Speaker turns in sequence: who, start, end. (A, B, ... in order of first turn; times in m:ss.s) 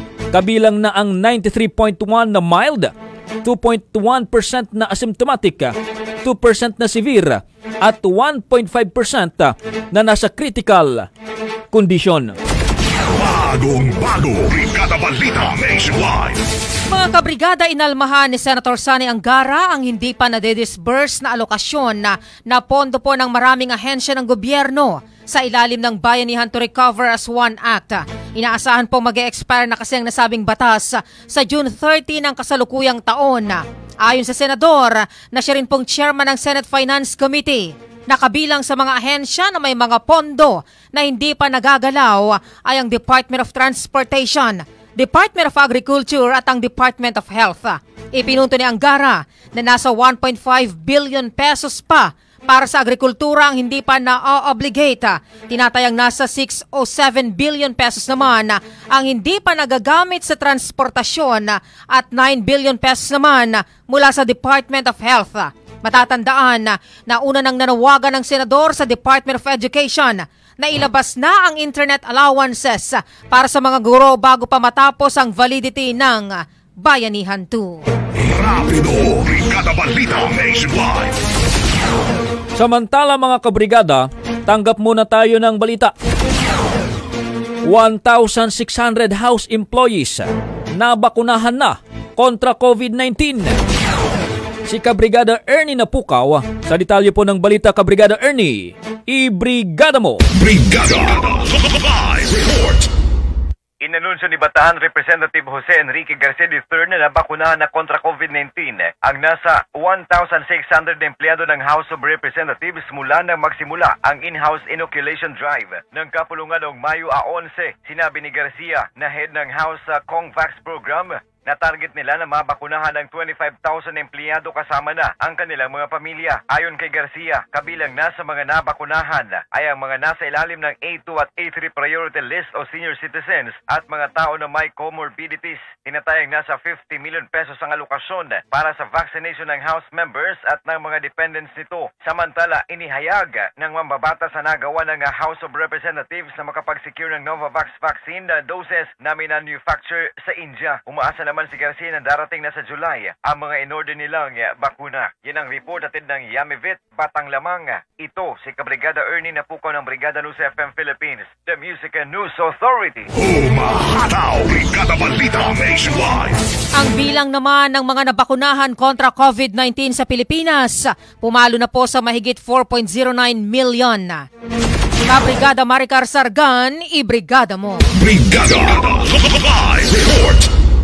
0:00.3-0:11.1 A
0:11.7-0:12.3 A
0:13.1-0:16.4 B
0:16.9-1:17.9 C
1:18.2-1:21.1 B
1:22.5-1:25.9 A
1:27.6-1:33.6 A
1:34.7-1:40.2 A
1:40.4-1:42.8 B
1:43.8-2:43.1 D
2:43.2-2:46.4 B
2:46.8-2:54.2 C
2:55.1-2:57.8 C
2:58.0-3:00.4 B